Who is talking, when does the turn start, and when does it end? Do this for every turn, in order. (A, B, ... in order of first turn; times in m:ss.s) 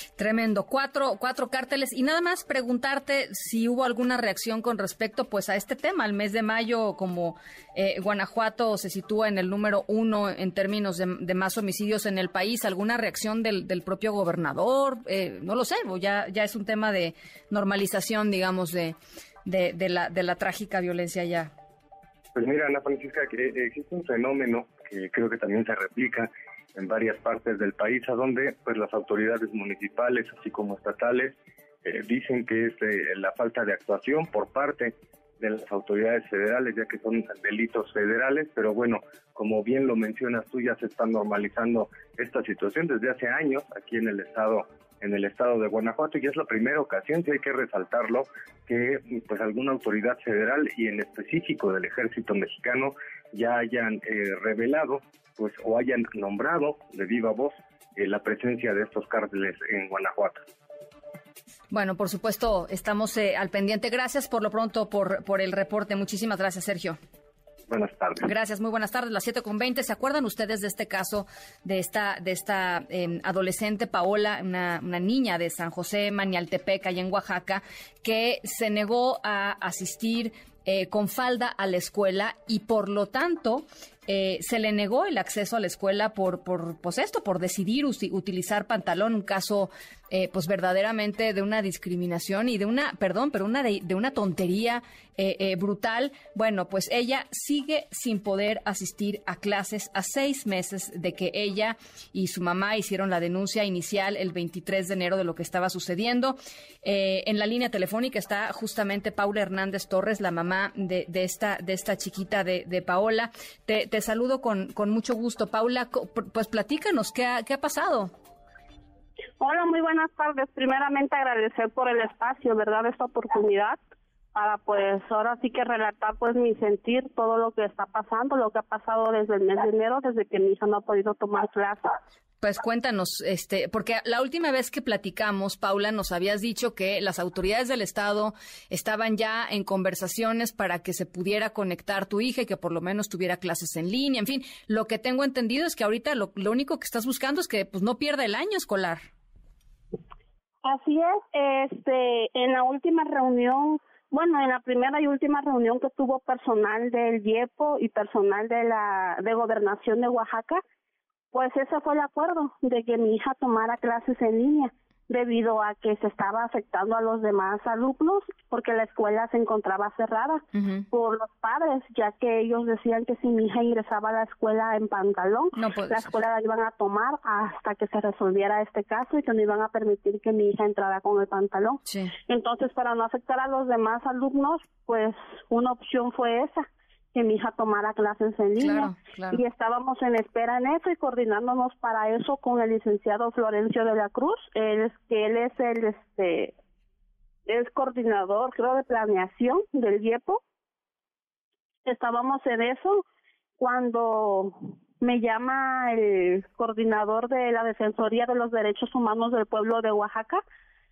0:00.2-0:21.5 A
0:22.3-1:00.4 B
1:01.7-1:07.0 A
1:07.7-1:08.3 B
1:08.2-1:58.1 A
1:59.4-2:03.8 C
2:04.4-2:11.9 C
2:12.4-2:29.0 A
2:30.6-2:40.6 C
2:41.3-3:16.5 C
2:50.5-2:50.9 A
2:55.6-2:56.1 A
3:01.9-3:02.1 A
3:08.6-3:09.4 A
3:17.5-3:20.4 C
3:21.8-3:23.0 C
3:23.6-3:30.4 C